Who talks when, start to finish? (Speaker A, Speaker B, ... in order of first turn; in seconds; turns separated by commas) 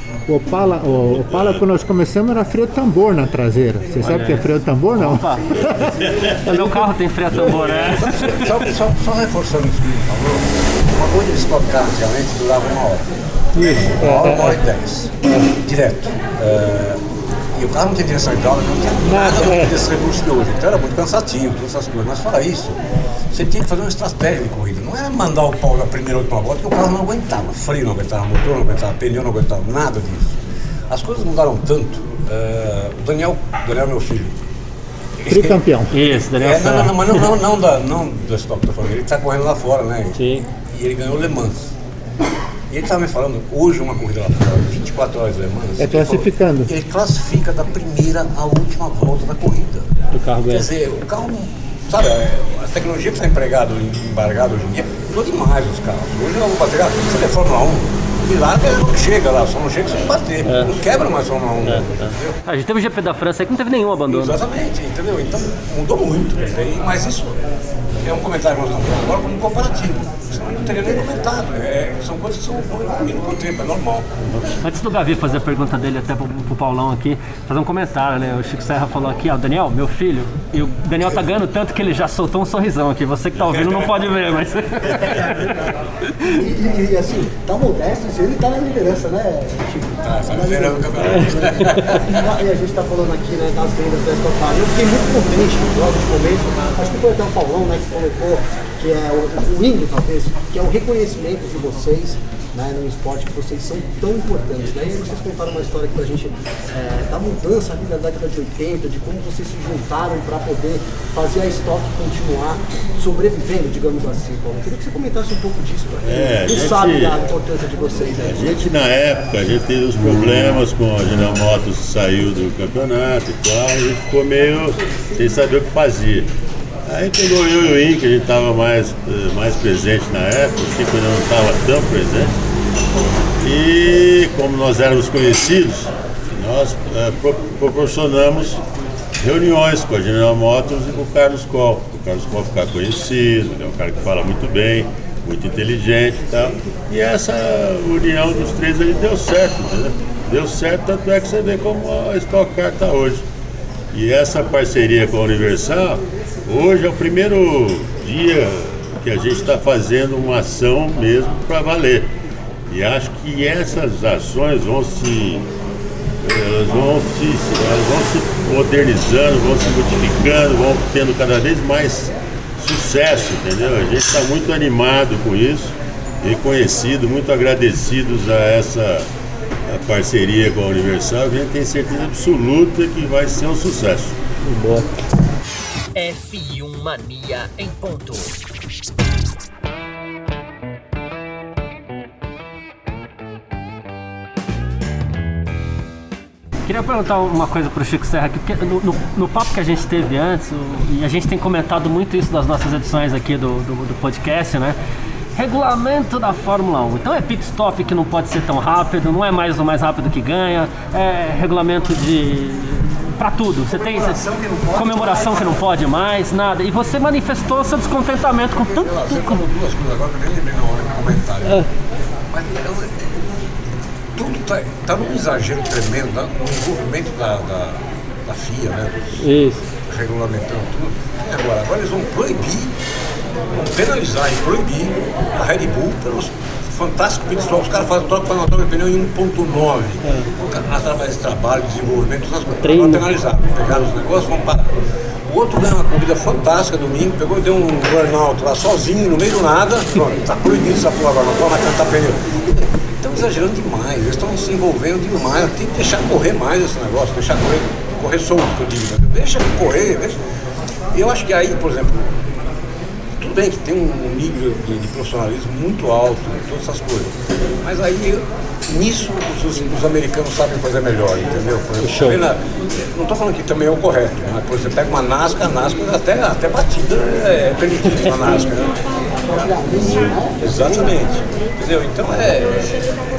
Speaker A: 0.3-6.9, Speaker B: 1.2-1.6, Speaker C: 4.0-5.7, Speaker D: 5.5-6.3, Speaker B: 6.0-6.4, Speaker C: 6.4-8.5, Speaker B: 7.3-8.4, Speaker E: 7.5-17.0, Speaker A: 13.9-14.6, Speaker E: 17.5-22.8, Speaker A: 19.0-19.8, Speaker E: 23.3-34.4, Speaker E: 35.2-41.7, Speaker A: 35.2-35.9, Speaker C: 35.9-37.3, Speaker C: 40.1-40.5, Speaker E: 42.7-49.9, Speaker A: 45.8-46.7, Speaker C: 50.1-50.7, Speaker E: 50.5-62.4, Speaker C: 60.4-60.8, Speaker C: 61.6-64.4, Speaker E: 64.1-67.4, Speaker E: 68.0-74.1, Speaker C: 74.6-86.3, Speaker E: 83.3-84.1, Speaker D: 85.0-118.8, Speaker E: 90.0-92.3, Speaker C: 91.7-92.0, Speaker B: 116.0-117.2, Speaker B: 118.2-126.3, Speaker B: 126.8-132.4, Speaker B: 133.4-138.6, Speaker B: 139.2-153.2, Speaker B: 153.9-162.1, Speaker B: 162.7-165.5, Speaker B: 166.2-179.1, Speaker B: 179.7-184.2, Speaker C: 184.4-184.9, Speaker C: 185.9-188.3, Speaker C: 196.7-204.8, Speaker C: 205.3-214.2, Speaker D: 213.7-215.6, Speaker C: 214.7-219.4, Speaker E: 218.6-221.6, Speaker E: 222.3-223.2, Speaker E: 224.2-229.3, Speaker C: 229.2-229.6, Speaker E: 229.8-232.7, Speaker E: 233.5-244.8, Speaker C: 242.6-243.1, Speaker E: 245.3-260.2, Speaker E: 260.9-262.2, Speaker E: 263.2-272.4, Speaker C: 271.8-272.2, Speaker E: 272.9-278.8, Speaker D: 279.3-281.0, Speaker E: 279.8-282.8